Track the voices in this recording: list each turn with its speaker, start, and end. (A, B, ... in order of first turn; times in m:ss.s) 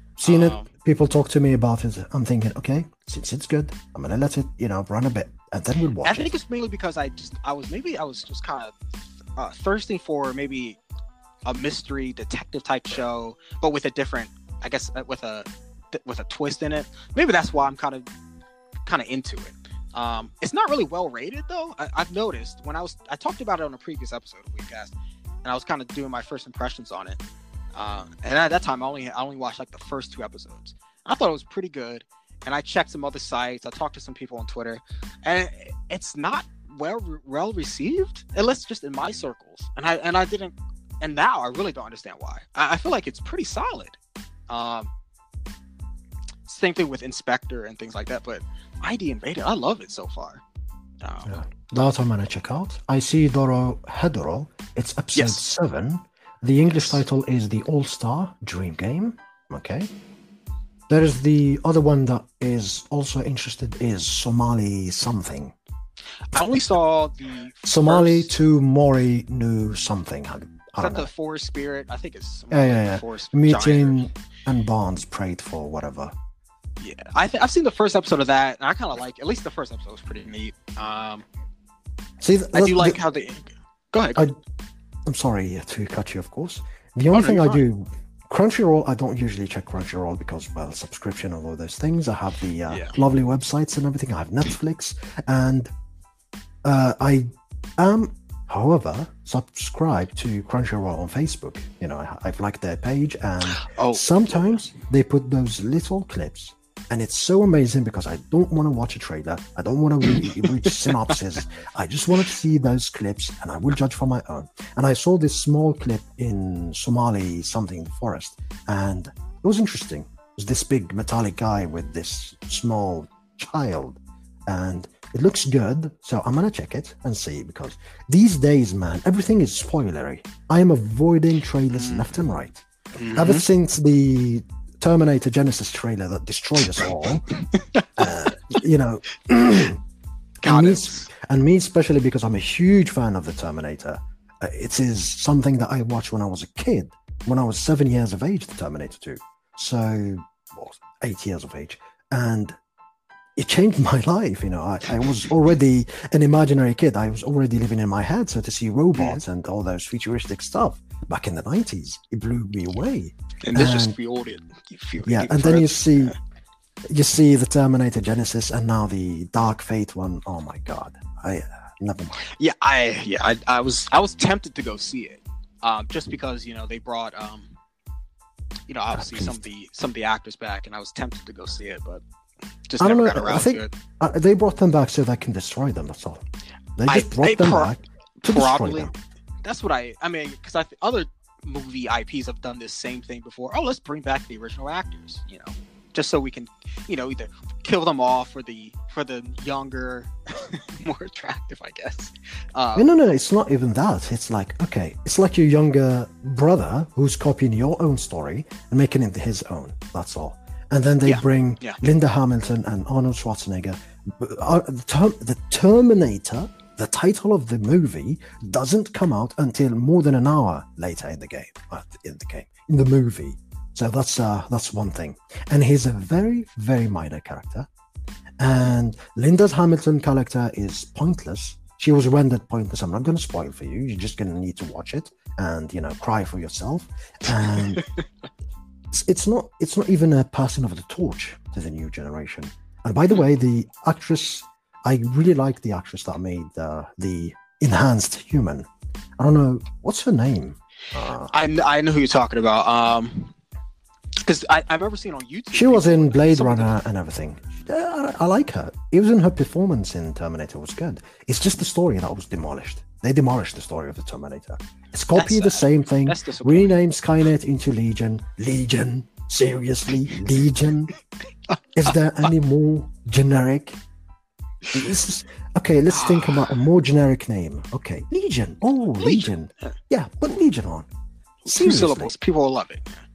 0:00.2-0:06.3 A
0:00.2-0:00.7 B
0:06.0-0:08.8 B
0:09.4-0:10.8 B
0:11.4-0:18.0 B
0:18.8-0:24.9 B
0:25.4-0:27.2 B
0:27.7-0:44.0 B
0:44.5-0:44.9 B
0:46.5-0:50.4 B
0:51.0-0:51.3 B
0:51.2-0:59.9 A
0:55.1-0:55.4 B
0:56.7-0:57.0 B
1:00.9-1:05.5 A
1:06.3-1:08.3 B
1:07.6-1:11.1 A
1:10.8-1:14.0 B
1:12.5-1:16.1 A
1:16.8-1:21.2 B
1:22.2-1:23.0 A
1:22.5-1:24.3 B
1:25.0-1:35.7 A
1:27.1-1:27.6 B
1:32.7-1:32.9 B
1:36.6-2:17.2 A
1:43.5-1:44.6 B
2:11.7-2:12.1 B
2:13.0-2:13.4 B
2:17.5-2:18.3 B
2:18.0-2:19.8 A
2:20.4-2:21.1 B
2:20.4-2:32.5 A
2:33.4-2:44.0 A
2:38.9-2:39.2 B
2:43.4-2:46.2 B
2:45.0-2:46.2 A
2:46.9-2:52.2 A
2:52.2-2:57.5 B
2:58.7-3:02.0 B
2:58.9-2:59.4 A
3:02.7-3:03.7 B
3:02.8-3:06.2 A
3:06.8-3:08.9 A
3:06.9-3:08.9 B
3:09.4-3:22.9 B
3:22.8-3:47.7 A
3:31.0-3:31.8 B
3:48.4-3:57.8 A
3:58.9-4:08.7 A
4:09.2-4:11.3 A
4:11.3-4:13.3 B
4:14.2-4:16.8 B
4:15.5-4:30.9 A
4:25.1-4:26.7 B
4:31.7-4:33.8 A
4:34.7-4:40.9 A
4:35.9-4:36.5 B
4:39.0-4:39.7 B
4:41.4-4:43.0 B
4:41.5-4:42.1 A